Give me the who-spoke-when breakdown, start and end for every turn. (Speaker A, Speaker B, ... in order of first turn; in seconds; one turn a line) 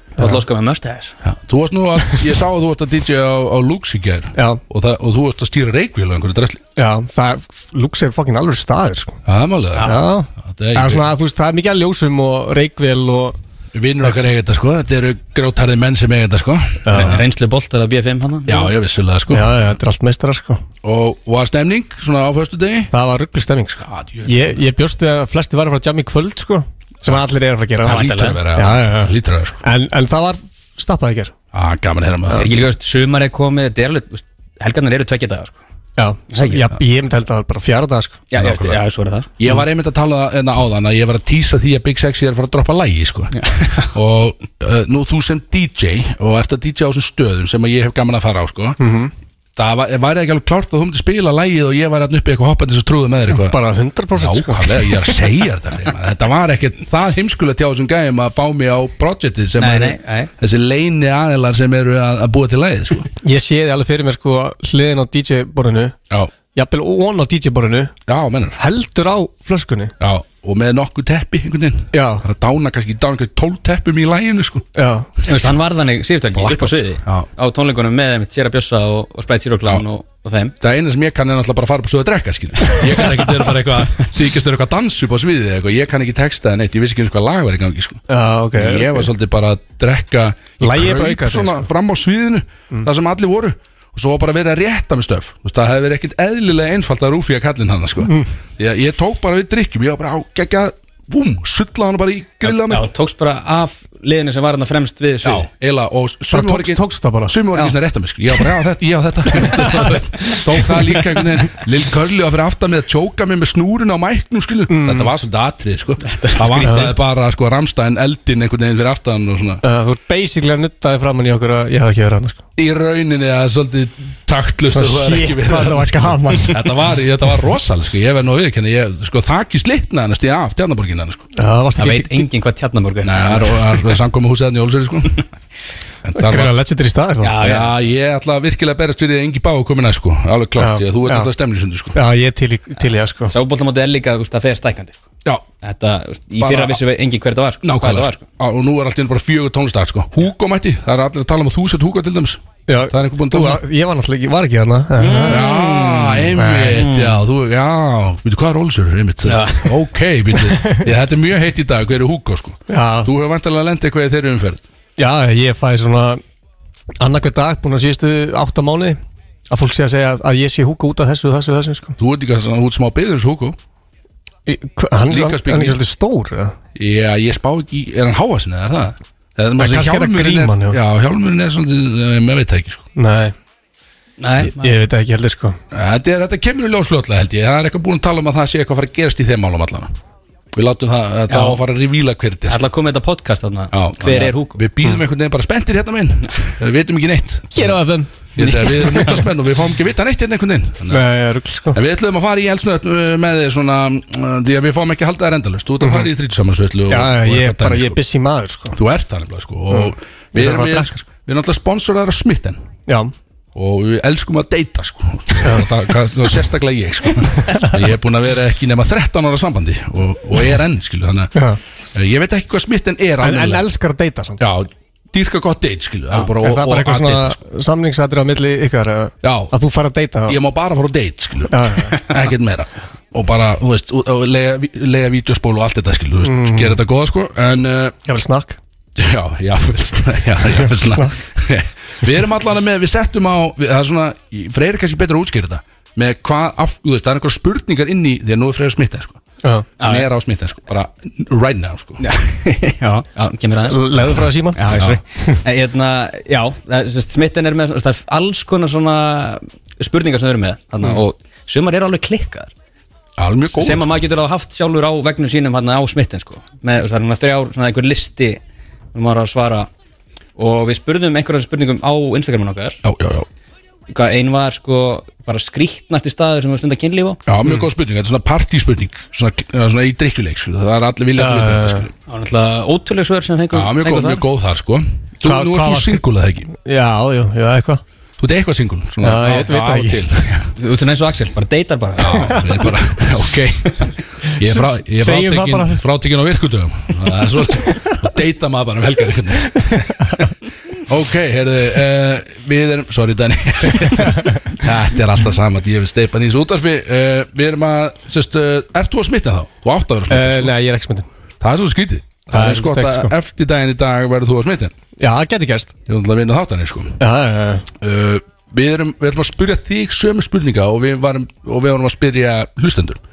Speaker A: 0.2-1.2
Speaker B: 1.2-6.6
Speaker C: 4.3-4.6
Speaker C: 6.8-9.2
Speaker B: 9.3-11.1
Speaker C: 9.8-13.4
Speaker B: 13.7-17.2
Speaker C: 16.9-17.1
Speaker A: 16.9-18.7
Speaker B: 18.5-19.6
Speaker C: 19.3-20.6
Speaker B: 20.8-22.9
Speaker C: 22.9-31.3
Speaker B: 23.8-24.6
Speaker A: 27.8-28.4
Speaker B: 27.8-29.6
Speaker B: 31.5-32.5
Speaker A: 32.4-35.6
Speaker C: 36.0-38.2
Speaker A: 36.3-36.7
Speaker A: 38.3-39.3
Speaker B: 38.4-38.8
Speaker B: 39.4-48.8
Speaker A: 43.4-43.9
Speaker C: 48.8-49.1
Speaker B: 49.6-53.6
Speaker C: 53.4-55.0
Speaker B: 54.1-63.1
Speaker A: 59.6-60.3
Speaker C: 63.2-66.0
Speaker C: 66.5-67.9
Speaker B: 68.1-68.6
Speaker C: 68.6-69.9
Speaker B: 70.0-74.7
Speaker C: 71.9-72.3
Speaker C: 74.8-75.1
Speaker B: 75.2-75.5
Speaker A: 75.3-80.5
Speaker B: 76.3-77.3
Speaker B: 80.6-88.0
Speaker C: 88.1-89.1
Speaker B: 88.5-102.9
Speaker C: 90.6-91.7
Speaker A: 102.5-105.5
Speaker B: 105.2-119.6
Speaker C: 106.3-107.4
Speaker C: 110.5-110.7
Speaker C: 114.7-115.1
Speaker A: 116.0-116.9
Speaker C: 116.6-116.9
Speaker C: 119.6-122.4
Speaker B: 122.6-131.2
Speaker C: 124.7-126.6
Speaker C: 131.4-132.3
Speaker A: 131.8-134.0
Speaker B: 133.0-135.2
Speaker B: 136.1-136.5
Speaker C: 136.2-137.3
Speaker A: 137.2-137.7
Speaker B: 137.4-142.0
Speaker C: 140.6-141.3
Speaker C: 141.9-143.3
Speaker A: 143.3-145.0
Speaker A: 145.6-148.2
Speaker B: 146.4-146.7
Speaker B: 147.6-153.6
Speaker C: 152.7-155.5
Speaker A: 155.0-157.2
Speaker B: 155.3-164.6
Speaker C: 156.4-156.8
Speaker A: 159.3-159.8
Speaker C: 162.7-163.1
Speaker C: 165.0-166.2
Speaker C: 167.0-169.0
Speaker C: 169.5-172.0
Speaker B: 172.0-173.6
Speaker C: 174.5-176.6
Speaker B: 175.1-175.8
Speaker B: 176.8-182.9
Speaker C: 179.6-180.8
Speaker C: 183.0-183.3
Speaker A: 184.2-184.8
Speaker C: 184.6-185.6
Speaker B: 185.7-189.9
Speaker B: 190.5-192.6
Speaker A: 191.3-191.6
Speaker A: 192.5-194.6
Speaker B: 193.7-197.8
Speaker C: 197.5-198.1
Speaker B: 198.4-201.0
Speaker A: 198.4-199.3
Speaker C: 200.9-201.8
Speaker B: 201.7-208.0
Speaker C: 205.8-206.1
Speaker C: 206.9-208.8
Speaker B: 208.7-212.6
Speaker C: 209.7-211.0
Speaker C: 212.9-213.1
Speaker B: 213.6-221.3
Speaker C: 217.4-217.7
Speaker B: 221.9-223.7
Speaker C: 223.2-224.4
Speaker B: 224.4-227.4
Speaker C: 226.1-230.4
Speaker B: 229.2-229.5
Speaker B: 230.3-238.0
Speaker C: 231.5-232.0
Speaker C: 236.2-236.8
Speaker C: 238.1-238.6
Speaker B: 239.0-249.2
Speaker C: 240.6-241.2
Speaker A: 249.8-250.1
Speaker B: 249.8-252.0
Speaker A: 252.0-262.5
Speaker C: 253.7-255.4
Speaker B: 254.7-255.0
Speaker B: 263.2-264.0
Speaker A: 263.5-268.4
Speaker A: 268.9-269.7
Speaker A: 270.4-272.8
Speaker B: 272.8-273.3
Speaker A: 273.9-277.2
Speaker B: 277.3-281.9
Speaker C: 281.2-281.9
Speaker A: 282.1-284.2
Speaker B: 283.5-286.5
Speaker C: 285.2-287.8
Speaker B: 288.2-290.5
Speaker C: 289.0-290.0
Speaker A: 290.6-292.7
Speaker B: 292.0-293.9
Speaker B: 294.4-300.3
Speaker C: 294.4-295.8
Speaker C: 297.7-297.9
Speaker C: 299.7-300.2
Speaker B: 300.9-310.5
Speaker C: 310.1-311.1
Speaker B: 311.4-314.7
Speaker C: 312.3-313.1
Speaker C: 315.0-315.7
Speaker B: 315.9-317.0
Speaker C: 317.0-317.7
Speaker B: 317.8-323.0